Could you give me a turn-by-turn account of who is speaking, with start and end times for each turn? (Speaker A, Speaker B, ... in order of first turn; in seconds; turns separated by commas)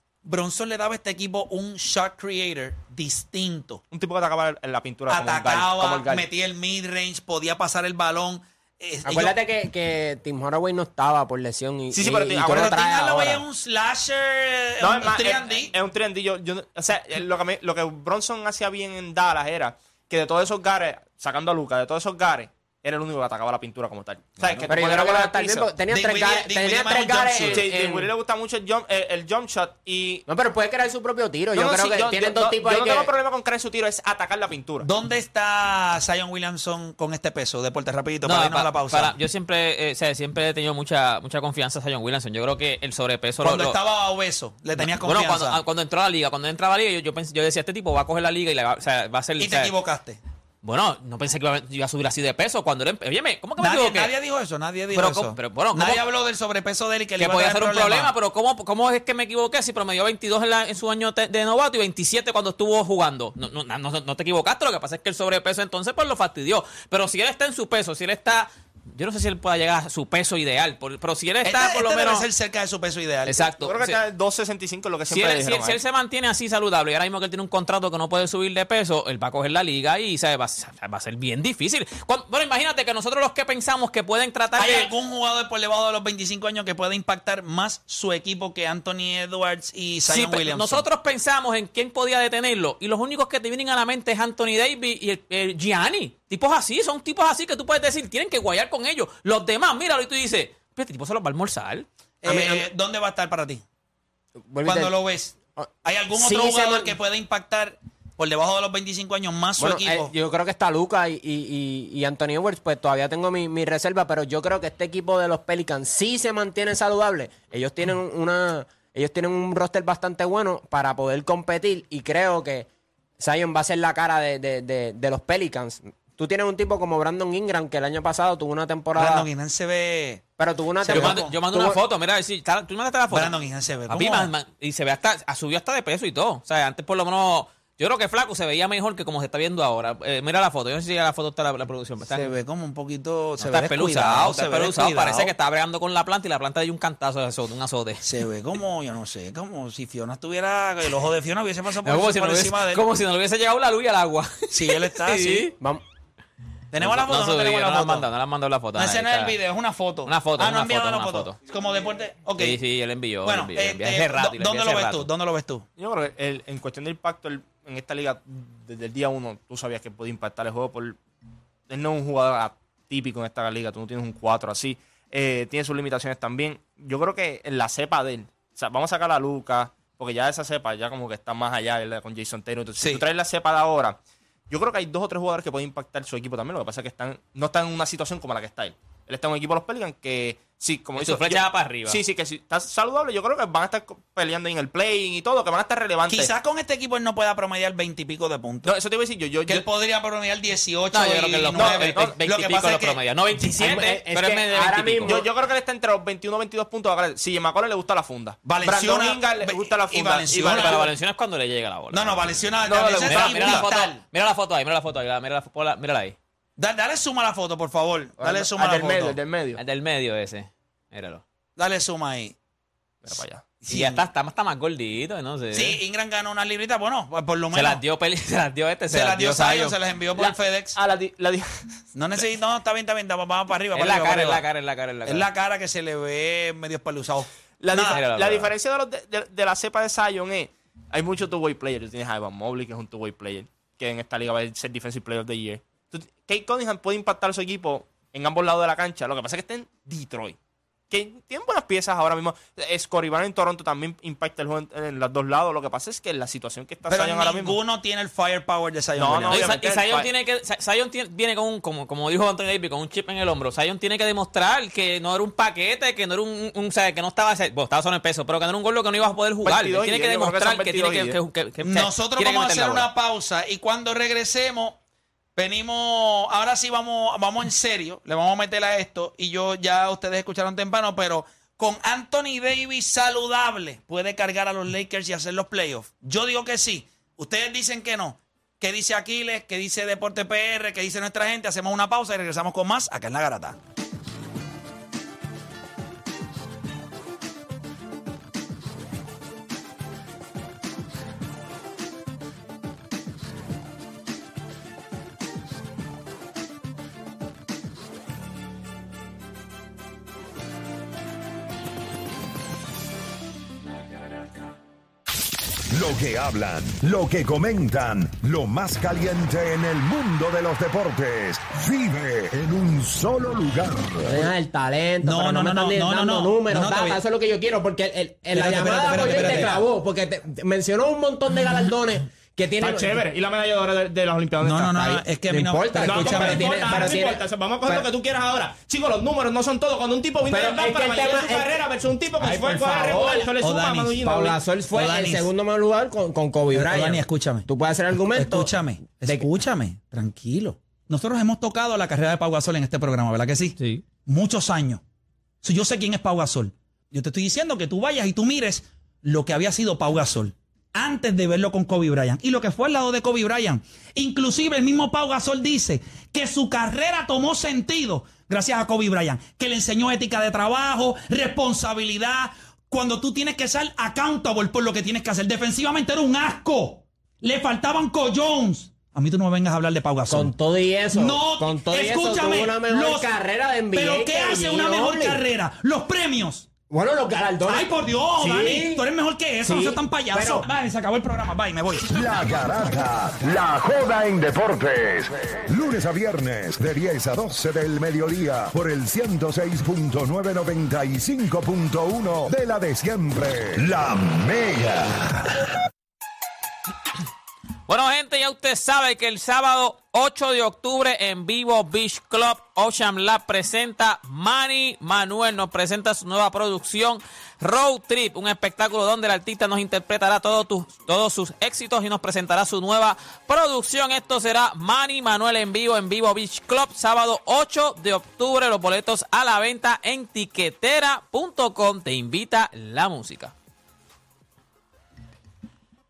Speaker A: 0.2-3.8, Speaker B: 3.9-6.3, Speaker A: 5.1-9.4, Speaker C: 9.0-13.4, Speaker B: 11.9-12.8, Speaker A: 12.5-15.7, Speaker B: 14.8-25.7, Speaker A: 24.4-24.7, Speaker C: 24.7-28.1, Speaker A: 25.9-27.6, Speaker B: 27.5-30.2, Speaker C: 30.3-33.1, Speaker B: 31.5-34.9, Speaker A: 34.8-39.1, Speaker D: 38.2-43.8, Speaker A: 43.4-45.6, Speaker D: 44.8-49.7, Speaker A: 49.4-50.2, Speaker D: 50.6-54.1, Speaker A: 53.6-58.1, Speaker D: 54.9-56.0, Speaker D: 57.2-72.2, Speaker A: 71.4-73.5, Speaker D: 73.3-74.0, Speaker B: 73.6-75.8, Speaker D: 75.1-84.9, Speaker A: 84.5-90.8, Speaker D: 90.1-101.9, Speaker A: 102.2-103.6, Speaker C: 102.2-102.7, Speaker C: 104.4-104.9, Speaker A: 104.6-110.1, Speaker C: 105.6-106.9, Speaker C: 109.6-122.7, Speaker C: 123.2-129.2, Speaker A: 129.0-130.2, Speaker C: 130.4-131.8, Speaker A: 130.8-131.4, Speaker D: 130.9-133.3, Speaker A: 133.1-134.3, Speaker D: 133.9-142.3, Speaker A: 142.0-145.3, Speaker D: 143.4-148.0, Speaker A: 148.0-152.8, Speaker D: 151.8-155.5, Speaker A: 154.5-155.5, Speaker A: 156.7-158.1, Speaker D: 156.8-159.4, Speaker A: 158.7-162.6, Speaker D: 160.1-161.4, Speaker D: 162.4-165.1, Speaker A: 163.2-165.7, Speaker B: 165.8-171.0, Speaker B: 171.7-184.0, Speaker B: 184.5-196.3, Speaker D: 191.0-192.0, Speaker A: 196.1-198.8, Speaker B: 198.6-199.6, Speaker A: 199.4-203.8, Speaker D: 200.9-205.2, Speaker B: 201.6-202.1, Speaker C: 203.6-205.2, Speaker B: 205.1-210.9, Speaker A: 208.4-210.9, Speaker D: 210.4-212.4, Speaker A: 211.9-214.0, Speaker B: 212.6-213.6, Speaker D: 213.0-216.2, Speaker A: 216.6-219.2, Speaker B: 218.2-219.6, Speaker D: 219.6-221.2, Speaker A: 221.6-222.3, Speaker B: 223.0-223.6, Speaker D: 223.6-225.8, Speaker A: 223.7-224.0, Speaker A: 225.5-227.8, Speaker D: 227.5-229.8, Speaker A: 228.9-230.8, Speaker B: 230.2-231.6, Speaker A: 231.9-234.4, Speaker D: 233.7-235.3, Speaker A: 235.1-238.1, Speaker B: 237.6-250.3, Speaker D: 237.9-238.5, Speaker B: 250.9-257.6, Speaker A: 256.9-259.6, Speaker B: 259.0-260.1, Speaker D: 259.3-272.9, Speaker B: 269.4-271.2, Speaker A: 271.6-274.8, Speaker A: 275.4-293.6, Speaker E: 315.7-324.1, Speaker C: 324.0-333.0, Speaker A: 325.0-327.0, Speaker A: 328.3-329.6, Speaker B: 332.6-334.8, Speaker A: 334.4-336.9, Speaker C: 334.8-337.9, Speaker B: 335.8-344.4, Speaker C: 340.3-341.6, Speaker C: 342.2-343.3, Speaker A: 343.0-345.3, Speaker C: 344.0-348.5, Speaker A: 346.5-347.4, Speaker A: 348.1-354.8, Speaker D: 353.6-353.8, Speaker A: 355.4-380.3, Speaker C: 380.1-385.2, Speaker A: 380.9-383.1, Speaker A: 383.7-386.5, Speaker C: 386.7-388.8, Speaker A: 387.5-392.0, Speaker C: 389.4-390.4, Speaker E: 391.9-405.3, Speaker D: 407.7-433.3